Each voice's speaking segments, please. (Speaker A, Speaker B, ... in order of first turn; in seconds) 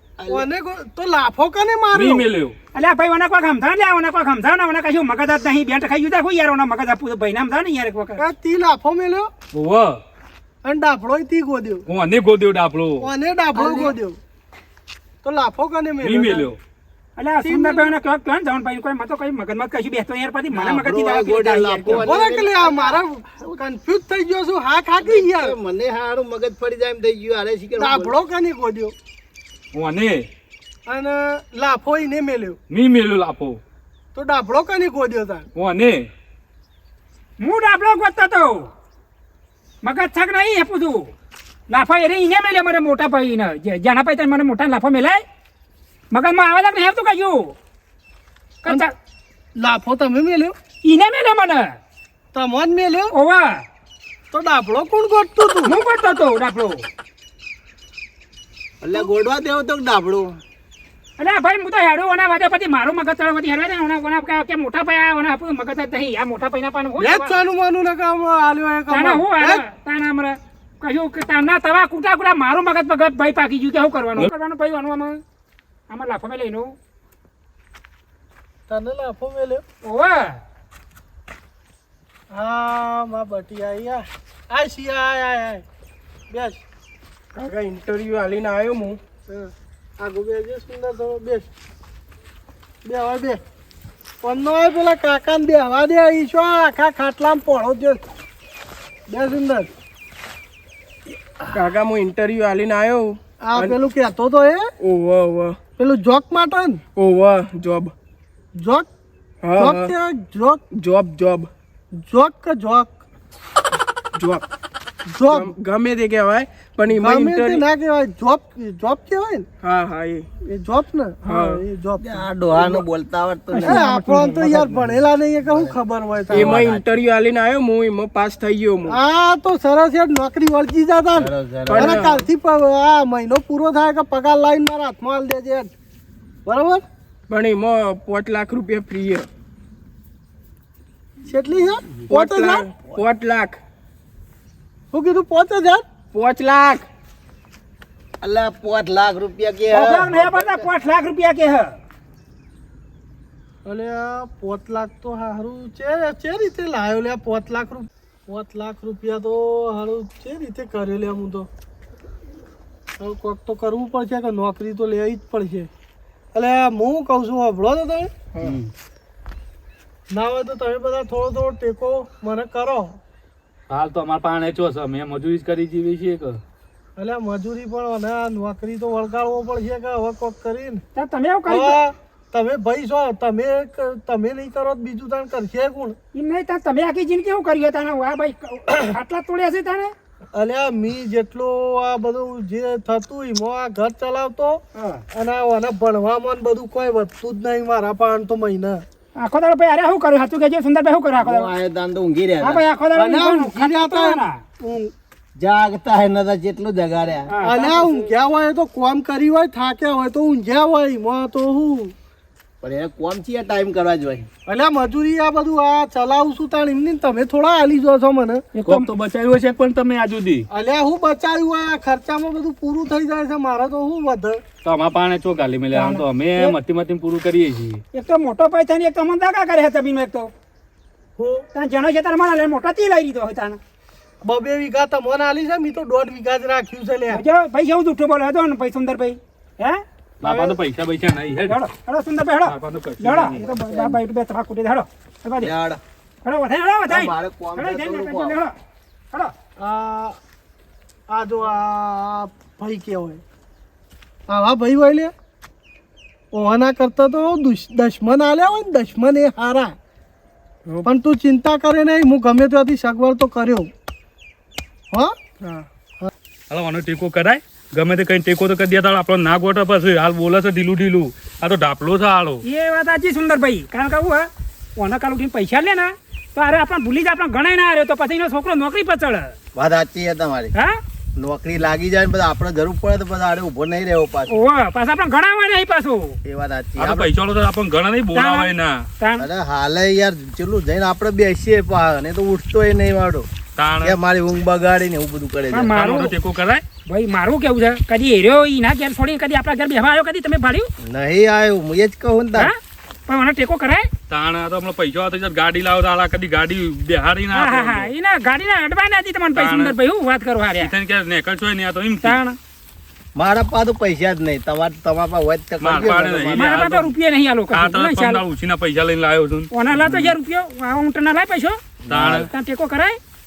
Speaker A: 0.2-0.5, 20.5-23.5, 25.0-28.1, 58.8-60.4, 122.0-123.9, 125.5-125.8, 126.3-127.0, 131.2-132.2, 148.2-150.7, 201.2-202.6, 205.4-207.3, 212.6-214.3, 243.2-244.0, 245.4-245.8, 246.9-248.4, 279.6-280.5, 281.2-284.4, 286.2-287.1, 289.2-293.3, 293.8-295.7, 300.8-302.5, 313.2-316.5, 321.9-322.3
Speaker B: 0.3-2.3, 8.2-9.3, 10.7-11.8, 13.0-14.2, 15.2-16.5, 17.4-17.9, 21.9-25.6, 27.8-28.9, 30.9-32.6, 34.1-35.5, 49.6-50.5, 52.3-53.1, 54.3-55.8, 67.0-69.6, 78.7-79.6, 82.3-85.6, 86.3-86.6, 89.3-91.5, 92.8-93.4, 94.2-98.0, 99.1-99.7, 103.4-104.7, 105.8-106.8, 108.6-108.9, 109.6-110.6, 112.0-112.9, 115.1-115.5, 116.9-119.5, 120.5-122.2, 123.6-126.6, 128.9-135.7, 136.5-136.8, 141.3-142.7, 144.9-145.8, 153.7-161.5, 163.0-165.7, 166.3-168.1, 170.1-173.0, 177.0-180.8, 181.5-186.0, 190.3-194.6, 195.1-198.8, 202.9-204.2, 207.4-211.9, 214.5-218.4, 220.5-224.4, 231.2-231.4, 234.2-237.2, 240.2-240.6, 249.6-250.2, 251.1-253.2, 254.3-255.1, 256.3-259.7, 260.9-263.7
Speaker C: 1.9-2.5, 9.5-10.0, 11.9-13.1, 16.0-16.6, 29.7-30.3, 32.7-33.6, 35.6-36.0, 168.4-168.7, 173.7-176.4, 218.7-220.5, 224.7-227.8, 240.2-241.6, 242.5-243.3, 266.5-272.4, 286.8-288.9, 293.6-294.0, 295.7-296.6, 304.1-307.9, 309.4-309.7, 310.6-312.2, 315.6-316.9, 317.5-320.1, 321.9-322.3
Speaker D: 2.8-8.2, 13.6-13.9, 17.2-22.1, 37.4-38.7, 39.8-41.1, 41.7-45.2, 46.1-47.5, 48.6-48.9, 50.8-51.8, 53.1-53.6, 55.7-56.9, 61.2-67.4, 68.9-75.2, 75.9-76.7, 79.8-80.4, 149.7-151.8, 180.9-181.8, 186.1-189.9, 194.8-195.0, 199.2-201.5, 202.4-204.9, 207.3-208.0, 218.5-218.9, 225.7-226.6, 227.9-230.3, 231.5-233.6, 237.1-239.8, 241.5-245.5, 246.2-248.5, 272.4-279.3, 284.3-286.2, 288.1-289.3, 295.5-296.1, 296.9-300.7, 302.4-303.9, 307.3-310.7, 312.0-312.4, 316.4-318.2, 319.5-321.6, 322.3-323.0
Speaker E: 87.3-89.0, 101.5-103.8, 104.8-105.6, 107.0-107.9, 109.4-109.9, 110.7-111.5, 114.2-114.4, 115.3-117.6, 119.6-120.3, 121.2-121.6, 122.5-122.8, 123.6-124.6, 126.3-129.0, 131.7-132.2, 137.3-139.3, 142.0-143.6, 146.1-146.9, 168.3-168.6, 265.4-265.7